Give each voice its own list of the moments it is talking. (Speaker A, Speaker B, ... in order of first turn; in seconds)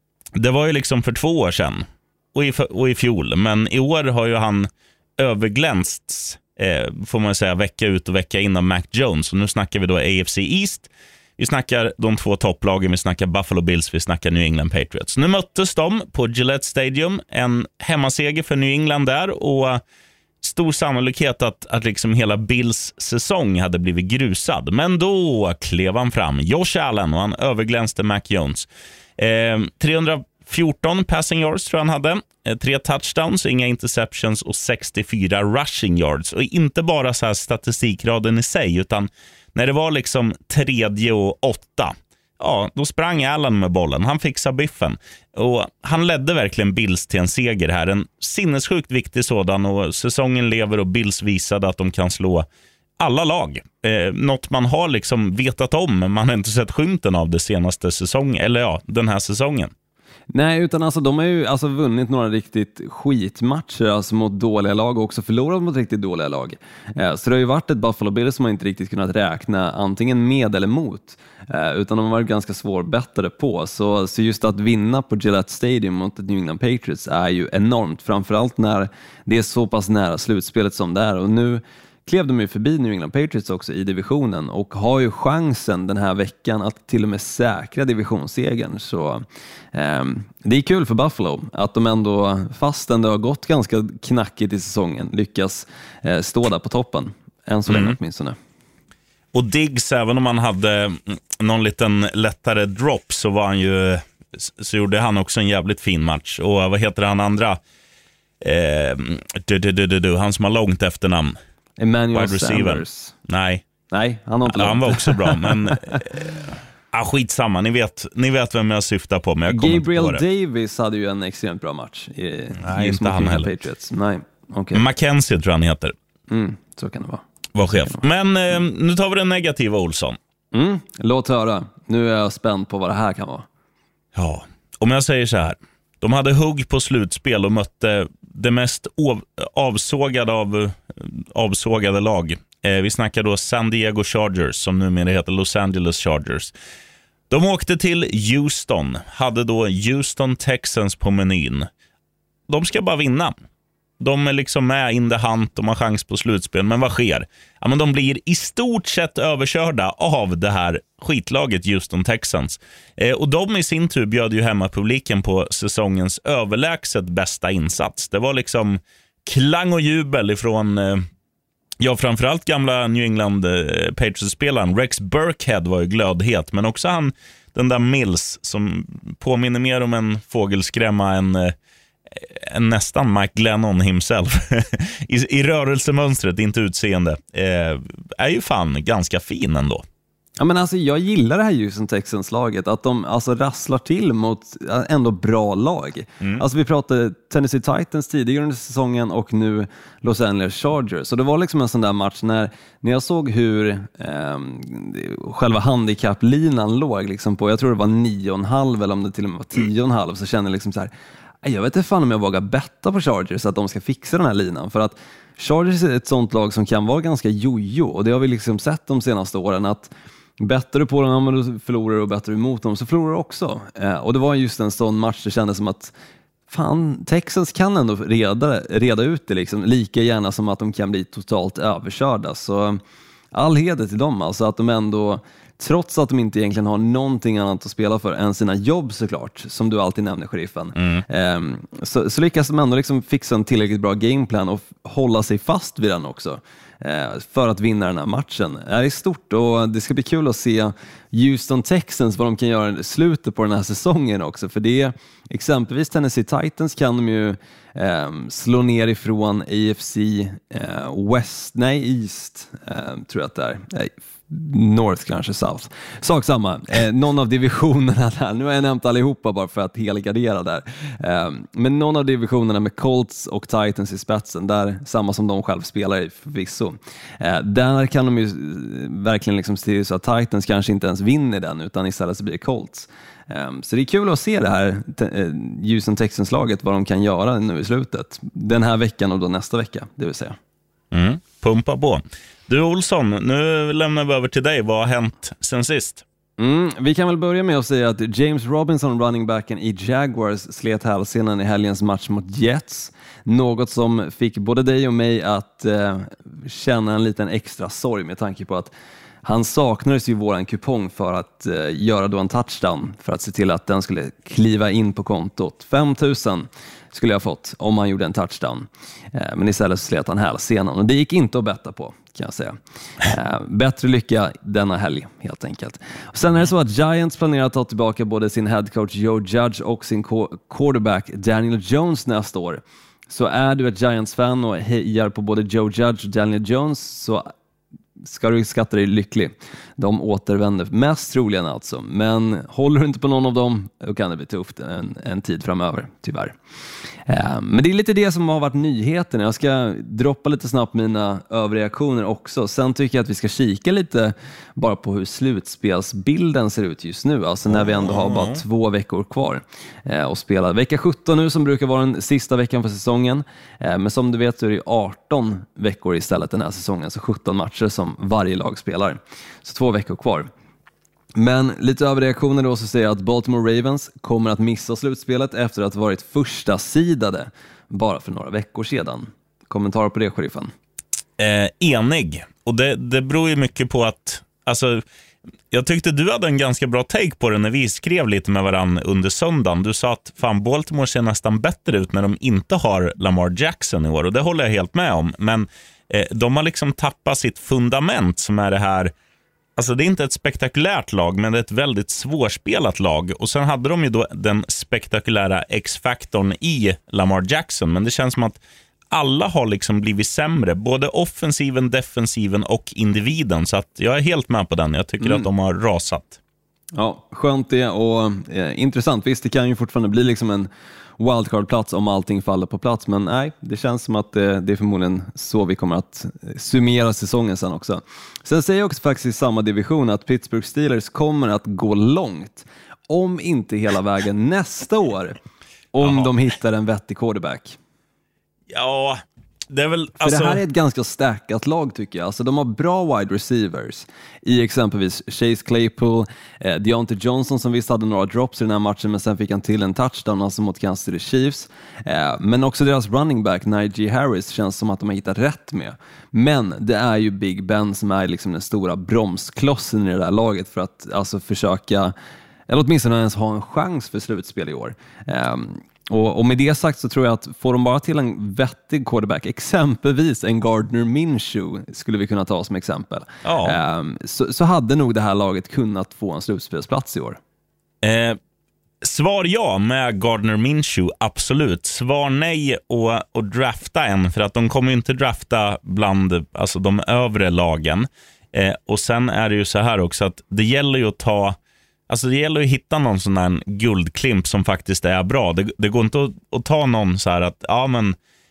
Speaker A: 0.3-19.8, 20.4-52.5, 53.0-59.7, 97.7-98.0, 99.3-107.6, 108.4-111.4, 112.1-113.6, 114.5-120.2, 122.6-123.5, 124.7-125.9, 127.5-130.2, 134.1-146.5, 147.3-151.7, 152.5-153.3, 154.0-171.1, 171.8-181.5, 182.1-189.8, 240.8-241.0, 290.9-296.0, 357.5-358.4, 381.2-384.8, 385.5-398.9, 399.6-408.4, 408.9-416.2, 435.8-436.1, 438.5-440.4, 473.2-473.6, 477.8-478.2, 478.8-491.4, 491.9-498.0
Speaker B: 60.3-89.2, 89.7-98.3, 111.8-113.1, 113.9-116.0, 119.5-124.8, 126.3-128.0, 130.5-133.4, 190.4-210.9, 211.4-225.9, 226.5-232.8, 233.3-290.4, 296.4-308.7, 309.2-337.3, 338.0-346.4, 347.1-370.3, 371.1-380.5, 415.0-415.2, 416.7-435.2, 435.7-437.6, 440.0-461.9, 462.5-477.2